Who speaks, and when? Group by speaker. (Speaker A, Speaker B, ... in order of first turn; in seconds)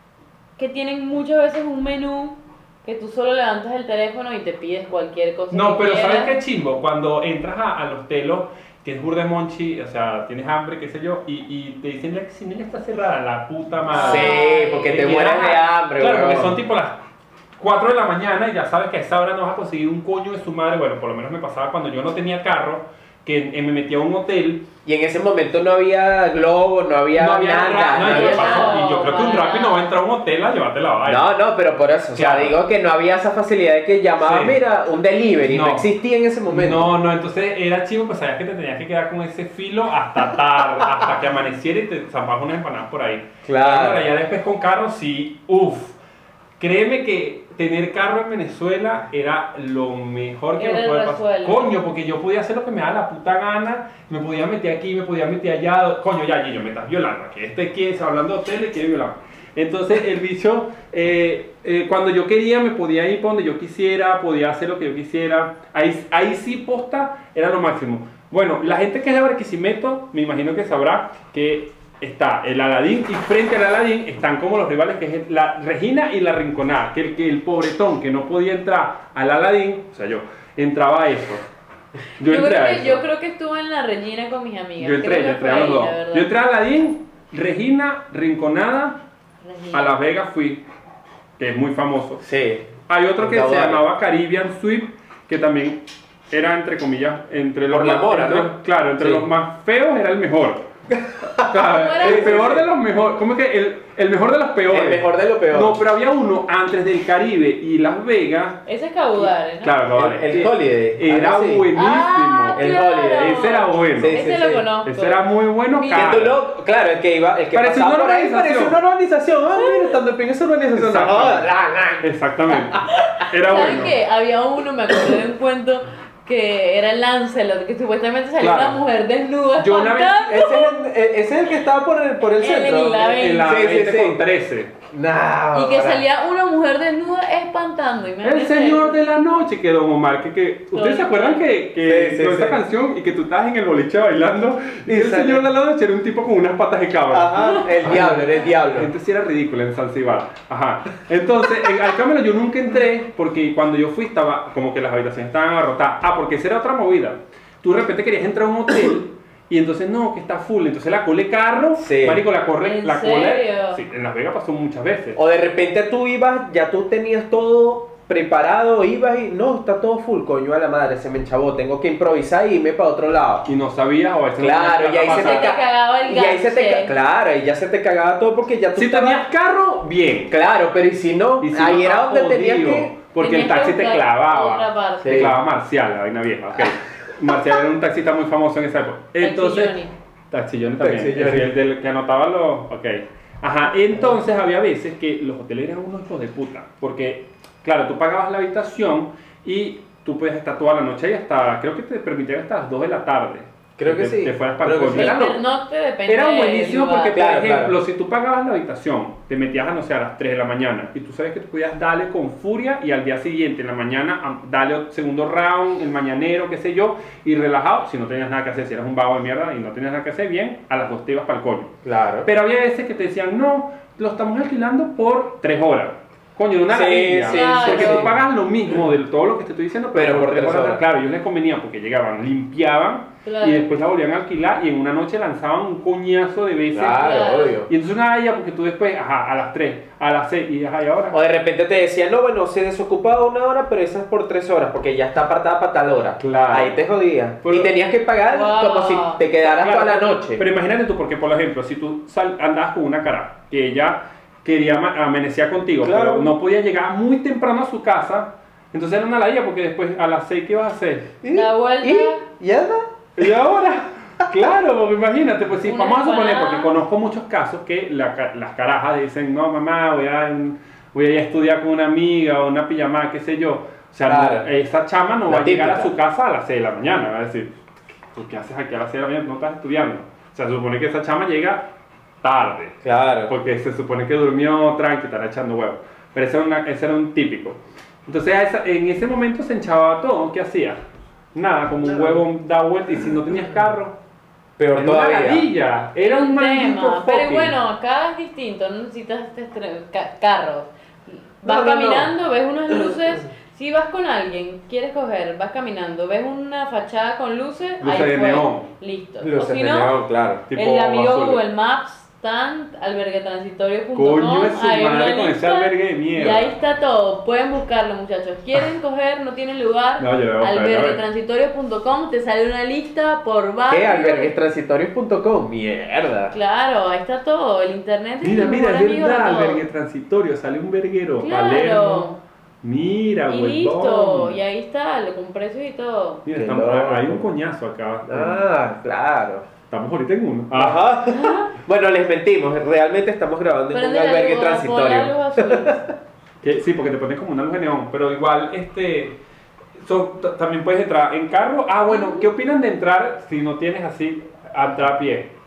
Speaker A: 0.6-6.4, 13.9-15.1, 27.9-29.9, 50.6-51.7, 82.2-86.3, 89.4-90.0, 101.6-102.4, 108.7-109.8, 111.7-116.2, 119.6-119.9, 123.0-130.8, 132.4-133.6, 135.5-139.0, 140.7-141.4, 162.6-163.8, 175.0-176.9, 183.2-185.3, 189.2-189.9, 204.9-207.2, 227.2-228.1, 233.2-233.7, 236.9-237.5, 248.2-249.2, 261.3-262.2, 265.6-266.7, 296.0-309.9, 310.5-324.3, 326.3-329.6, 331.2-332.2, 333.3-336.2, 341.1-341.5, 343.7-345.8, 351.9-352.3
Speaker B: 5.5-17.0, 17.6-24.7, 27.1-31.3, 32.1-32.5, 34.2-34.6, 35.5-35.9, 36.5-45.9, 46.6-81.5, 82.2-83.0, 84.8-89.0, 89.7-90.6, 91.4-92.2, 92.9-100.6, 101.3-108.6, 109.2-114.2, 114.8-116.4, 117.5-118.8, 120.7-121.5, 122.0-123.9, 128.4-128.8, 129.6-130.3, 133.0-134.7, 138.2-165.2, 173.4-175.5, 178.7-180.3, 181.4-189.8, 190.3-205.4, 206.1-221.7, 222.2-241.2, 246.2-246.8, 247.4-247.7, 249.4-261.1, 263.2-277.5, 278.1-281.7, 282.2-290.8, 291.3-293.9, 294.7-297.5, 307.8-308.7, 310.5-311.4, 313.9-316.5, 320.0-321.0, 328.2-334.4, 336.2-338.4, 339.7-340.8, 346.4-349.2, 349.8-355.3
Speaker C: 13.9-16.6, 24.8-28.9, 31.0-36.9, 43.5-44.1, 92.2-93.8, 97.7-99.3, 101.3-102.7, 104.7-105.8, 109.9-111.7, 112.5-114.7, 115.9-123.0, 130.3-134.2, 134.9-136.0, 141.8-142.6, 144.9-145.5, 147.1-148.9, 161.8-162.2, 165.2-173.5, 174.4-179.3, 180.3-182.9, 185.0-185.4, 190.8-191.5, 203.8-205.3, 207.1-207.8, 221.8-222.3, 226.7-228.2, 229.9-230.8, 236.7-237.7, 241.1-250.4, 255.8-256.3, 261.2-263.3, 274.0-274.5, 275.3-275.9, 282.8-283.3, 291.9-292.2, 294.6-295.5, 301.4-302.1, 309.2-310.5, 323.7-326.3, 336.3-337.3, 338.0-339.5, 340.5-345.9